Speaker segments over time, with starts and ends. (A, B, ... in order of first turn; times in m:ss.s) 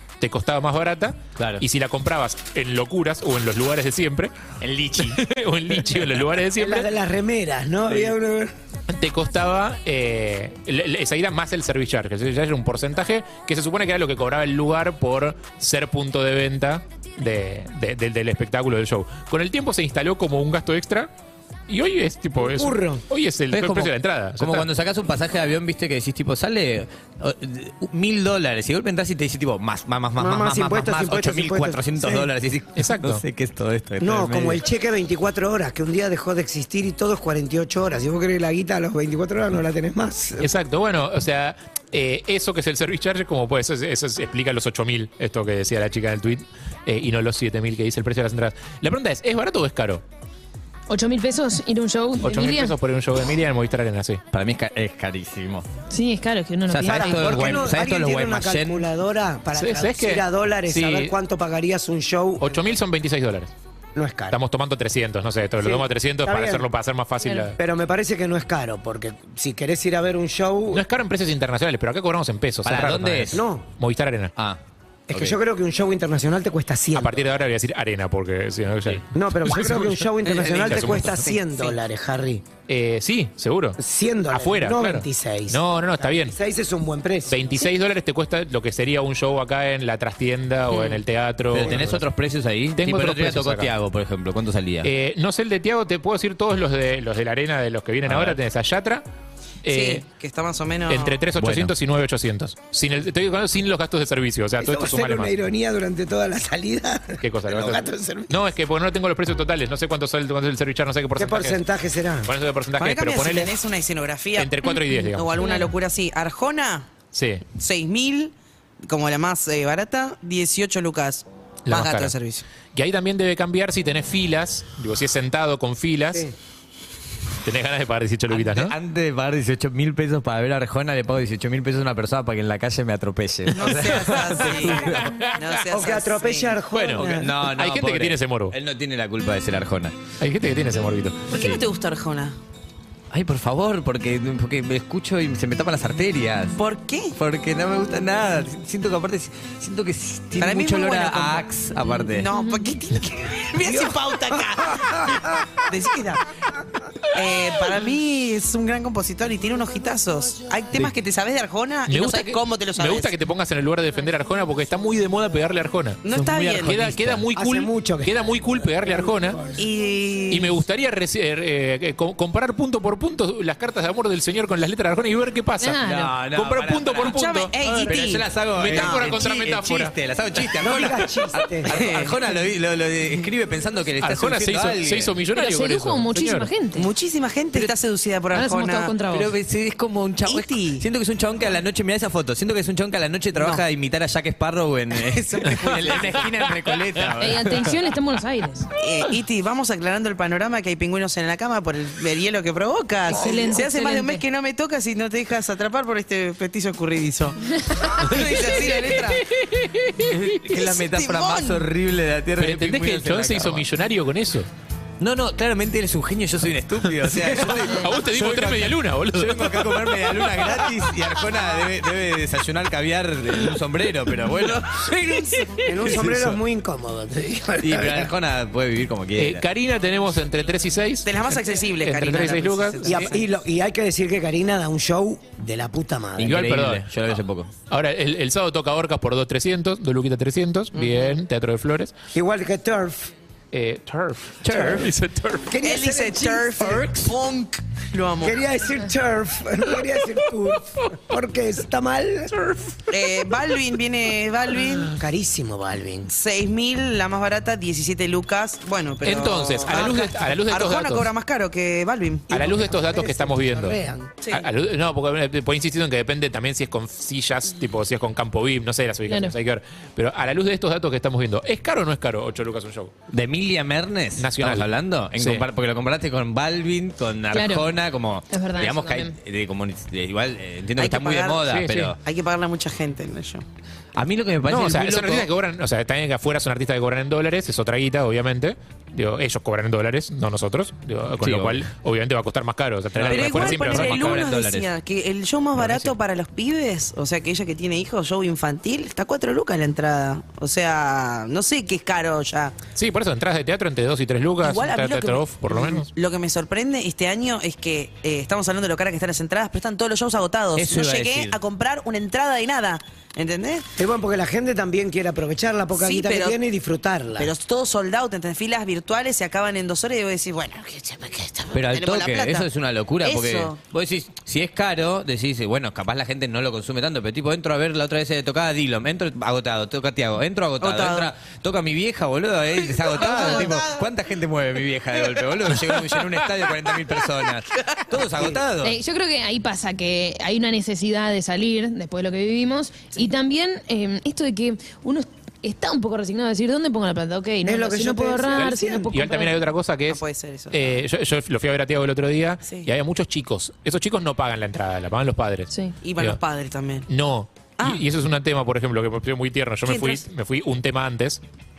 0:00.2-0:06.9 A
0:01.4-0:01.6 B
0:04.6-0:05.2 B
0:06.6-0:08.5 C
0:08.9-0:21.1 A
0:21.7-0:24.7 A
0:22.4-0:23.0 C
0:23.5-0:34.6 B
0:30.2-0:32.3 C
0:32.8-0:33.2 A
0:34.0-0:40.5 C
0:40.4-0:50.0 A
0:50.9-0:52.8 D
0:52.2-0:54.2 A
0:54.3-0:55.7 B
0:55.9-0:57.6 D
0:56.7-0:58.9 B
0:56.9-1:02.6 C
0:59.6-1:01.1 A
1:02.4-1:03.5 A
1:04.0-1:04.4 C
1:04.3-1:07.6 A
1:05.6-1:06.7 C
1:07.2-1:07.5 D
1:07.6-1:10.8 C
1:10.7-1:14.3 A
1:12.6-1:13.4 B
1:13.3-1:13.7 C
1:15.1-1:17.3 C
1:15.1-1:15.4 B
1:16.9-1:20.1 A
1:19.1-1:22.4 C
1:20.2-1:21.8 E
1:20.7-1:21.3 A
1:22.7-1:23.8 A
1:23.8-1:27.4 C
1:24.3-1:26.4 A
1:27.3-1:32.1 A
1:30.7-1:31.0 E
1:31.5-1:34.9 B
1:32.8-1:33.7 A
1:34.8-1:39.0 A
1:38.1-1:38.4 B
1:39.6-1:40.1 A
1:39.7-1:41.2 E
1:40.9-1:45.3 A
1:41.4-1:41.7 B
1:44.6-1:48.4 C
1:47.2-1:51.6 A
1:51.2-1:52.3 C
1:52.2-1:53.5 A
1:52.8-1:56.9 E
1:54.4-1:55.4 A
1:54.7-1:55.7 D
1:57.1-1:57.4 A
1:57.5-2:02.4 E
2:01.7-2:02.1 A
2:02.7-2:06.3 A
2:07.4-2:08.8 A
2:08.3-2:15.2 B
2:13.5-2:16.6 E
2:14.7-2:15.6 A
2:15.7-2:17.3 C
2:16.7-2:18.6 A
2:17.0-2:20.0 B
2:20.2-2:21.4 A
2:21.3-2:22.4 E
2:21.3-2:21.6 B
2:23.1-2:26.6 B
2:26.6-2:27.2 E
2:27.1-2:32.3 B
2:30.4-2:36.2 E
2:32.3-2:32.8 D
2:33.6-2:35.5 C
2:37.1-2:43.1 E
2:41.9-2:49.4 A
2:46.0-2:47.2 E
2:47.3-2:49.6 C
2:49.6-2:50.6 E
2:50.3-2:55.8 A
2:55.6-2:56.1 D
2:55.8-3:05.1 B
2:56.3-3:00.0 A
2:57.0-2:59.2 E
3:00.6-3:01.7 C
3:01.7-3:02.2 E
3:04.0-3:06.5 A
3:05.3-3:06.9 D
3:06.8-3:08.9 E
3:08.3-3:09.3 D
3:09.1-3:17.8 B
3:10.3-3:10.8 E
3:13.4-3:13.6 E
3:14.9-3:16.3 E
3:17.2-3:18.7 D
3:18.8-3:29.3 E
3:23.1-3:24.2 D
3:27.6-3:27.9 D
3:28.0-3:30.4 A
3:30.0-3:33.7 B
3:30.5-3:31.7 E
3:32.4-3:34.5 A
3:35.0-3:46.4 B
3:37.0-3:40.7 A
3:44.7-3:45.5 E
3:45.7-3:48.1 C
3:47.6-3:49.4 B
3:49.2-3:53.1 A
3:51.0-3:53.3 E
3:52.8-3:56.4 C
3:56.2-3:57.5 B
3:56.2-3:56.9 A
3:57.7-4:01.9 A
4:00.7-4:01.2 E
4:02.1-4:03.1 C
4:03.5-4:05.5 A
4:04.4-4:04.9 B
4:04.5-4:04.9 C
4:05.5-4:07.2 C
4:05.6-4:08.4 E
4:08.2-4:12.8 C
4:12.9-4:15.0 E
4:14.9-4:16.1 C
4:16.1-4:22.3 E
4:19.0-4:21.1 A
4:22.3-4:24.2 C
4:22.3-4:23.8 A
4:24.2-4:24.5 E
4:24.3-4:32.9 A
4:29.1-4:29.4 D
4:33.1-4:42.0 B
4:34.2-4:35.5 A
4:37.3-4:37.7 D
4:38.3-4:39.2 D
4:40.8-4:41.4 E
4:41.4-4:41.9 A
4:42.0-4:43.4 E
4:44.0-4:45.3 B
4:44.5-4:54.3 A
4:51.2-4:51.7 B
4:53.0-4:54.7 B
4:53.1-5:02.6 E
4:55.6-4:55.9 A
5:02.8-5:05.9 A
5:04.4-5:13.7 E
5:10.6-5:11.4 B
5:13.8-5:17.3 C
5:15.8-5:16.4 E
5:17.2-5:22.5 E
5:21.5-5:38.8 B
5:23.0-5:23.6 E
5:30.6-5:31.1 E
5:32.6-5:33.8 E
5:33.1-5:33.5 D
5:37.5-5:38.3 E
5:38.6-5:49.4 D
5:47.4-5:48.9 C
5:48.4-5:56.2 A
5:49.9-5:50.8 E
5:52.4-5:52.7 E
5:55.5-5:55.8 D
5:55.8-5:56.9 E
5:56.9-6:01.2 A
5:57.6-5:57.8 E
5:59.7-6:00.0 E